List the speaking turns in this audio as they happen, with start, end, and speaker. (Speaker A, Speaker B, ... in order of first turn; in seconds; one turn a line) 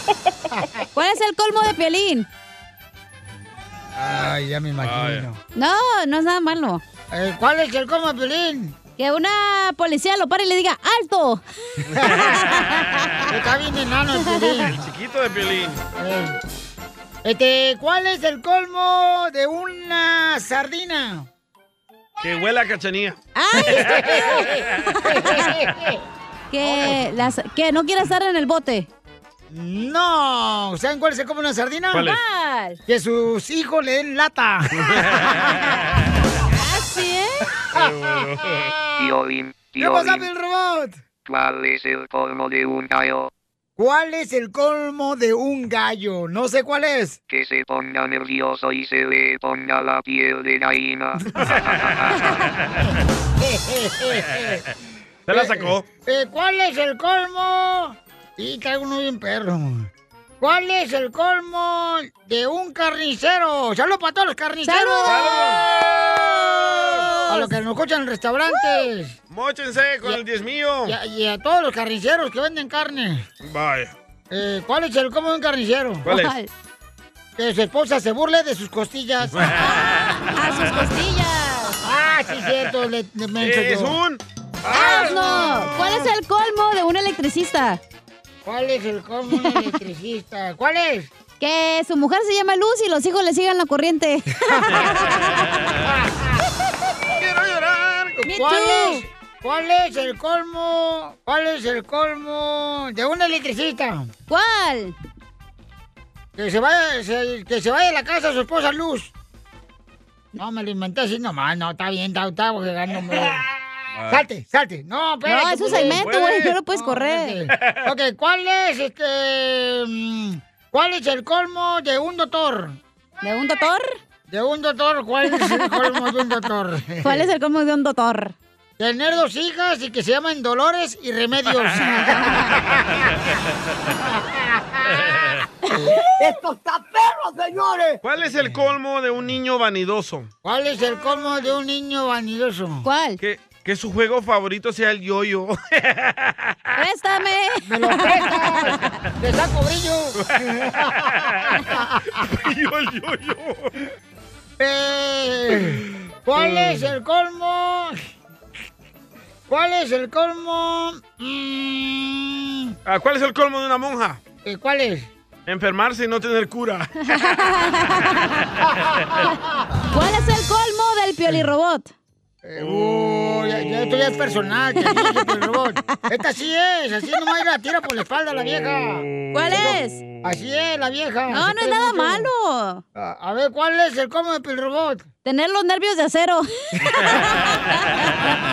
Speaker A: 0.5-0.8
Speaker B: 0.9-2.3
Speaker A: 4.0-5.4
Speaker C: 4.8-5.3
Speaker B: 5.5-6.8
Speaker A: 7.1-8.8
Speaker B: 9.0-11.4
Speaker C: 11.9-12.6
Speaker A: 11.9-12.2
Speaker B: 12.3-13.0
Speaker A: 13.3-14.8
Speaker B: 14.2-14.6
Speaker C: 14.7-15.8
Speaker A: 16.0-16.4
Speaker A: 17.2-21.3
Speaker C: 22.2-23.2
Speaker B: 23.3-23.9
Speaker A: 23.6-26.0
Speaker B: 25.1-25.5
Speaker B: 26.5-28.9
Speaker A: 26.6-26.9
Speaker A: 29.5-32.1
Speaker C: 31.9-32.2
Speaker B: 32.0-32.8
Speaker A: 32.9-35.5
Speaker C: 34.8-35.7
Speaker B: 36.5-37.4
Speaker C: 37.7-38.7
Speaker A: 37.7-39.1
Speaker D: 39.0-40.3
Speaker A: 39.8-41.0
Speaker D: 41.2-43.3
Speaker A: 43.8-47.2
Speaker D: 47.3-52.1
Speaker C: 51.4-52.0
Speaker A: 53.4-54.6
Speaker C: 55.3-55.8
Speaker A: 55.3-66.0
Speaker B: 64.6-65.4
Speaker C: 65.0-65.7
Speaker B: 67.0-67.5
Speaker A: 67.2-69.2
Speaker C: 69.3-71.0
Speaker A: 70.8-73.2
Speaker C: 73.4-73.9
Speaker A: 74.3-76.1
Speaker C: 76.0-76.3
Speaker B: 76.1-76.5
Speaker A: 77.4-79.5
Speaker C: 79.3-80.1
Speaker B: 79.6-81.8
Speaker A: 81.8-84.0
Speaker C: 83.4-84.2
Speaker B: 84.7-87.8
Speaker A: 84.7-86.0
Speaker A: 88.4-91.1
Speaker B: 89.3-89.7
Speaker B: 91.4-95.3
Speaker A: 94.5-94.9
Speaker C: 97.2-98.2
Speaker A: 98.2-104.1
Speaker B: 98.2-99.0
Speaker B: 104.3-104.9
Speaker A: 106.4-109.1
Speaker A: 110.3-113.4
Speaker C: 113.9-114.2
Speaker A: 114.1-122.8
Speaker B: 115.2-117.4
Speaker C: 115.8-116.5
Speaker C: 117.5-117.8
Speaker B: 123.2-123.9
Speaker A: 124.3-127.3
Speaker B: 125.2-126.0
Speaker B: 127.0-128.3
Speaker A: 128.8-132.8
Speaker C: 138.0-140.3
Speaker A: 140.4-142.9
Speaker B: 142.8-143.2
Speaker C: 143.2-146.6
Speaker B: 146.8-148.8
Speaker A: 147.6-152.2
Speaker C: 150.2-151.7
Speaker C: 152.2-153.7
Speaker A: 154.6-158.0
Speaker A: 159.5-162.8
Speaker C: 162.8-164.2
Speaker A: 164.4-165.1
Speaker C: 165.5-166.9
Speaker B: 167.1-168.3
Speaker B: 169.9-171.9
Speaker A: 172.4-182.3
Speaker C: 172.6-173.1
Speaker B: 174.8-175.3
Speaker C: 179.1-180.2
Speaker B: 179.3-180.0
Speaker B: 181.3-182.8
Speaker A: 182.9-185.1
Speaker B: 185.2-188.1